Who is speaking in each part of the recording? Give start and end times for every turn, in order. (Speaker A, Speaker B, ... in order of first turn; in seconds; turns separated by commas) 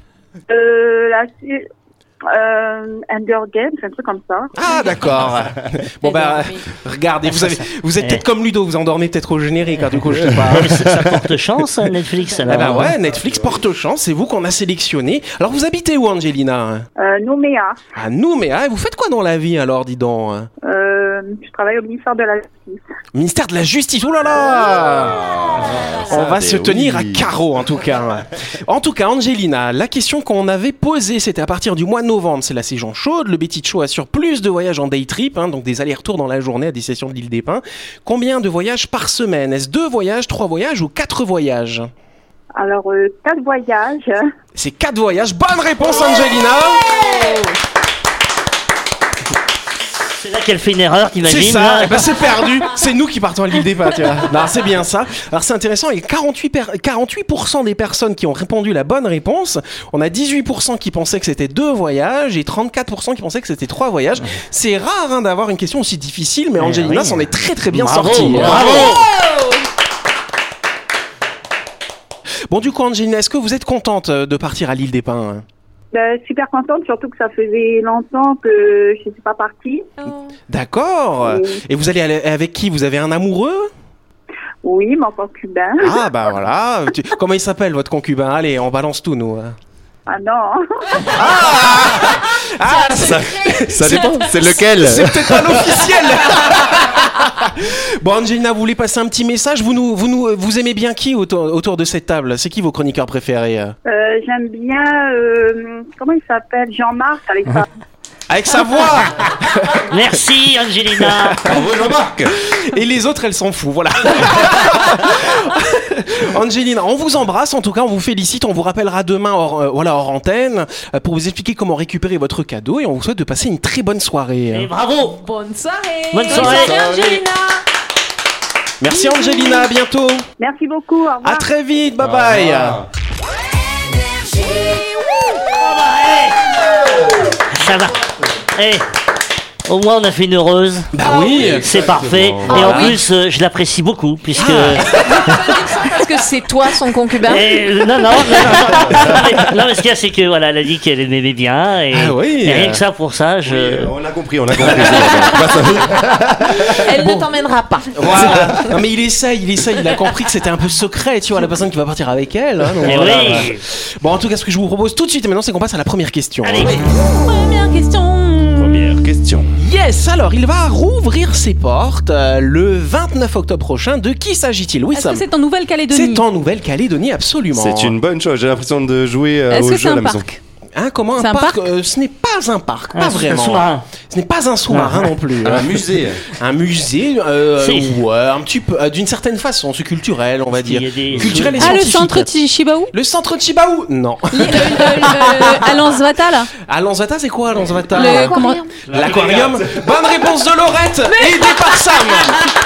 Speaker A: 0.5-1.7, Speaker A: 2.3-4.5, Speaker B: 4.5-10.8, Speaker C: 4.7-5.0, Speaker C: 6.0-6.7, Speaker D: 7.3-8.2, Speaker D: 10.5-12.9, Speaker B: 12.5-16.9, Speaker E: 12.6-13.6, Speaker A: 17.0-17.8, Speaker B: 17.9-20.5, Speaker A: 20.6-22.8, Speaker B: 23.1-25.3, Speaker E: 25.1-27.3, Speaker B: 26.1-41.9, Speaker A: 42.5-44.3, Speaker B: 44.6-47.5, Speaker D: 50.1-52.1, Speaker B: 51.2-68.9, Speaker D: 66.6-69.1, Speaker B: 72.5-75.4, Speaker A: 75.9-79.9, Speaker B: 80.5-83.7, Speaker A: 81.2-81.6, Speaker A: 84.6-86.0, Speaker B: 85.8-89.6, Speaker A: 90.1-91.0, Speaker E: 91.1-92.2, Speaker B: 91.2-103.8, Speaker E: 92.8-95.8, Speaker A: 103.9-107.7, Speaker B: 108.3-109.8, Speaker D: 109.9-111.6, Speaker E: 111.4-112.4, Speaker B: 112.5-124.7, Speaker D: 124.5-125.2, Speaker C: 125.0-127.6, Speaker D: 126.1-127.2, Speaker E: 126.3-127.2, Speaker B: 128.8-130.3, Speaker A: 130.4-131.5, Speaker B: 131.2-132.8, Speaker E: 132.0-132.9, Speaker D: 135.6-136.5, Speaker D: 137.5-138.8, Speaker D: 139.7-145.3, Speaker B: 140.9-141.7, Speaker E: 141.2-143.0, Speaker C: 142.5-142.9, Speaker C: 144.4-147.9, Speaker B: 144.4-144.8, Speaker D: 147.2-153.9, Speaker E: 148.7-149.3, Speaker B: 151.9-152.8, Speaker E: 153.5-156.8, Speaker C: 155.0-155.3, Speaker C: 156.7-158.5, Speaker B: 156.9-157.3, Speaker B: 157.9-166.8, Speaker E: 158.1-158.6, Speaker D: 162.8-163.6, Speaker D: 166.4-166.8, Speaker F: 166.9-168.8, Speaker E: 168.6-169.5, Speaker B: 169.6-175.2, Speaker F: 174.9-176.2, Speaker B: 175.9-178.0, Speaker E: 177.5-180.3, Speaker F: 179.5-180.4, Speaker B: 180.8-185.8, Speaker F: 181.2-181.7, Speaker D: 182.9-183.9, Speaker D: 184.7-185.1, Speaker E: 185.4-186.2, Speaker B: 186.3-192.3, Speaker D: 187.6-188.0, Speaker D: 190.5-191.8, Speaker E: 191.1-191.5, Speaker F: 191.6-192.9, Speaker B: 192.9-195.6, Speaker F: 194.3-196.5, Speaker B: 196.7-198.4, Speaker C: 197.9-198.7, Speaker F: 197.9-198.6, Speaker E: 198.9-199.9, Speaker B: 198.9-202.4, Speaker F: 201.1-201.4